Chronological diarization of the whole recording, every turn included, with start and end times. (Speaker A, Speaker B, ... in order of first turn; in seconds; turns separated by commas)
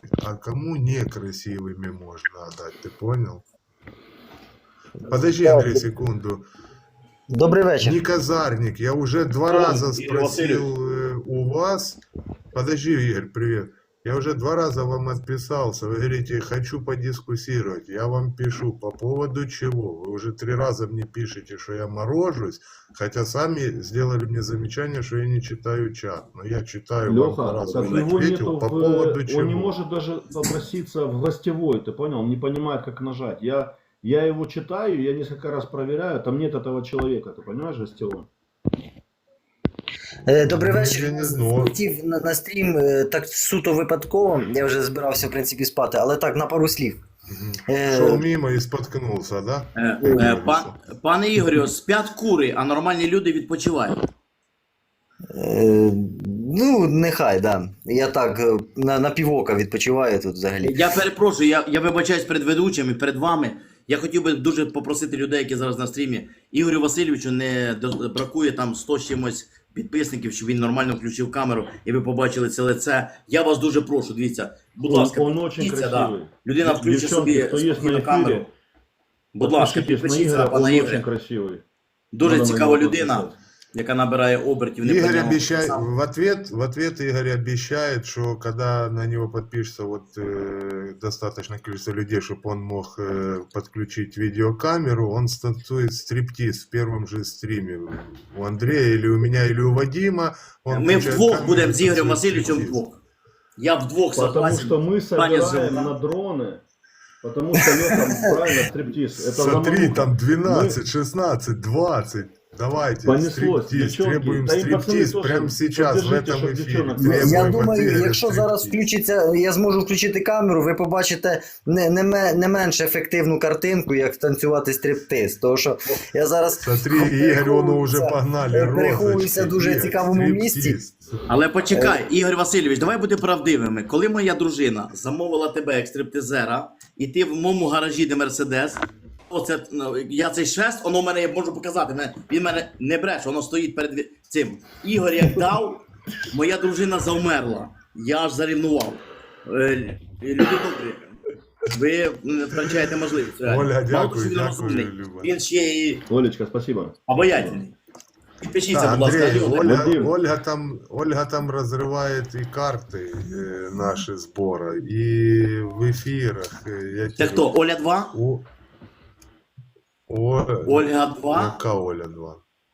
Speaker A: 0.2-3.4, Speaker A: 5.1-6.5, Speaker B: 5.4-5.8, Speaker B: 7.3-8.0, Speaker A: 7.8-12.0, Speaker C: 9.5-10.7, Speaker A: 12.5-29.8, Speaker D: 27.1-38.3, Speaker B: 40.3-47.0, Speaker A: 40.4-41.8, Speaker A: 47.3-50.8, Speaker B: 47.7-48.2, Speaker C: 49.8-54.0, Speaker B: 55.3-60.8, Speaker C: 60.6-78.5, Speaker D: 74.8-78.5, Speaker C: 79.3-81.0, Speaker D: 79.4-81.6, Speaker C: 82.1-85.8, Speaker D: 82.2-83.4, Speaker A: 84.8-102.8, Speaker C: 100.7-103.0, Speaker C: 103.6-106.0, Speaker D: 104.1-106.6, Speaker D: 107.2-110.8, Speaker A: 109.2-118.9, Speaker D: 113.0-117.6, Speaker B: 117.0-130.8, Speaker A: 126.6-131.2, Speaker C: 131.3-151.1, Speaker B: 131.7-132.0, Speaker C: 151.7-156.1, Speaker A: 153.4-155.4, Speaker D: 156.1-157.6, Speaker C: 157.1-157.7, Speaker C: 158.4-159.9, Speaker A: 158.7-167.5, Speaker D: 159.2-160.1, Speaker C: 167.2-168.2, Speaker A: 168.1-168.5, Speaker A: 170.1-172.4, Speaker C: 170.7-171.6